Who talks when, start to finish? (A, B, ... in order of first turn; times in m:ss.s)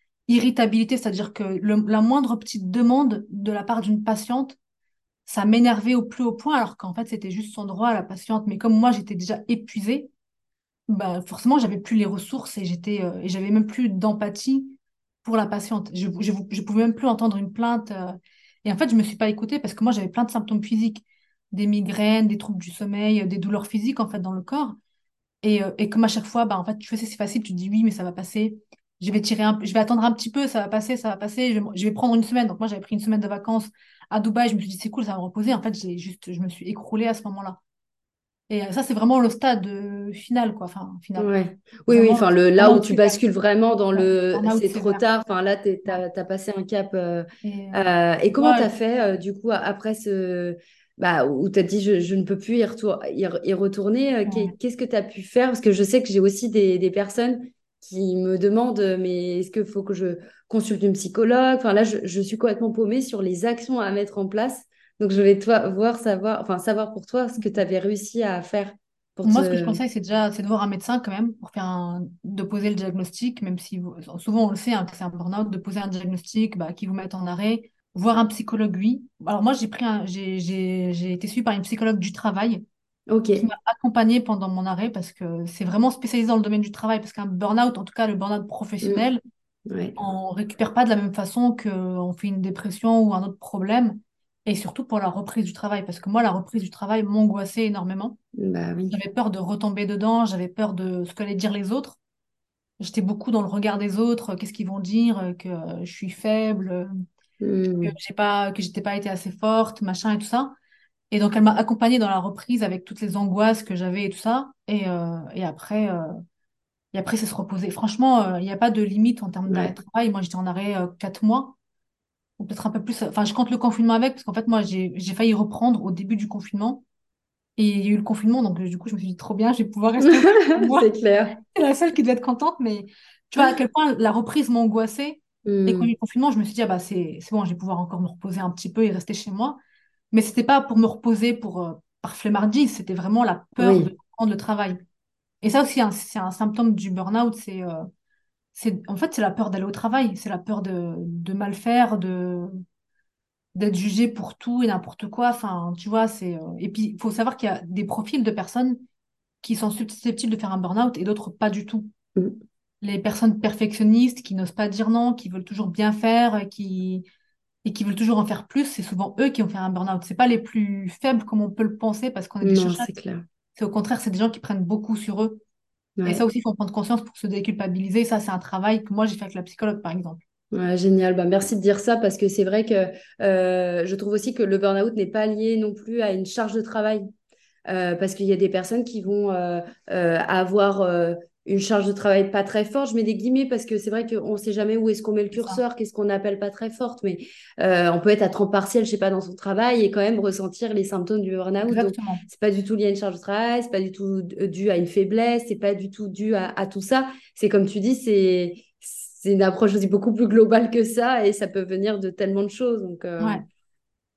0:00.3-0:04.6 A
0:05.2-0:10.1 A
0:10.9-0:24.8 A
0:25.4-0:37.6 A
0:38.5-0:41.3 A
0:41.2-1:09.8 B
0:41.9-0:43.2 A
0:43.9-0:45.0 A
0:47.4-0:47.8 A
0:48.3-0:48.7 A
0:54.2-0:54.5 A
1:09.2-1:22.6 A
1:23.1-1:23.5 B
1:23.4-1:29.2 A
1:29.7-1:30.0 B
1:30.0-1:38.2 A
1:38.4-1:39.0 B
1:38.9-1:42.0 A
1:42.8-1:46.9 A
1:47.4-1:47.9 B
1:47.8-1:50.5 A
1:51.1-1:56.1 A
1:56.9-2:01.6 A
1:59.5-1:59.7 B
2:02.4-2:06.8 A
2:07.6-2:19.6 A
2:10.0-2:11.3 B
2:15.4-2:15.9 B
2:20.1-2:24.8 A
2:23.6-2:23.9 B
2:25.4-2:27.9 A
2:28.5-2:32.6 A
2:33.6-2:38.8 A
2:39.4-2:41.9 A
2:42.8-2:47.0 A
2:47.6-2:52.9 A
2:52.4-2:53.2 B
2:53.6-2:55.4 A
2:56.0-2:56.2 B
2:56.0-3:00.2 A
3:00.5-3:07.0 B
3:07.7-3:33.4 B
3:15.3-3:15.6 A
3:21.6-3:22.2 A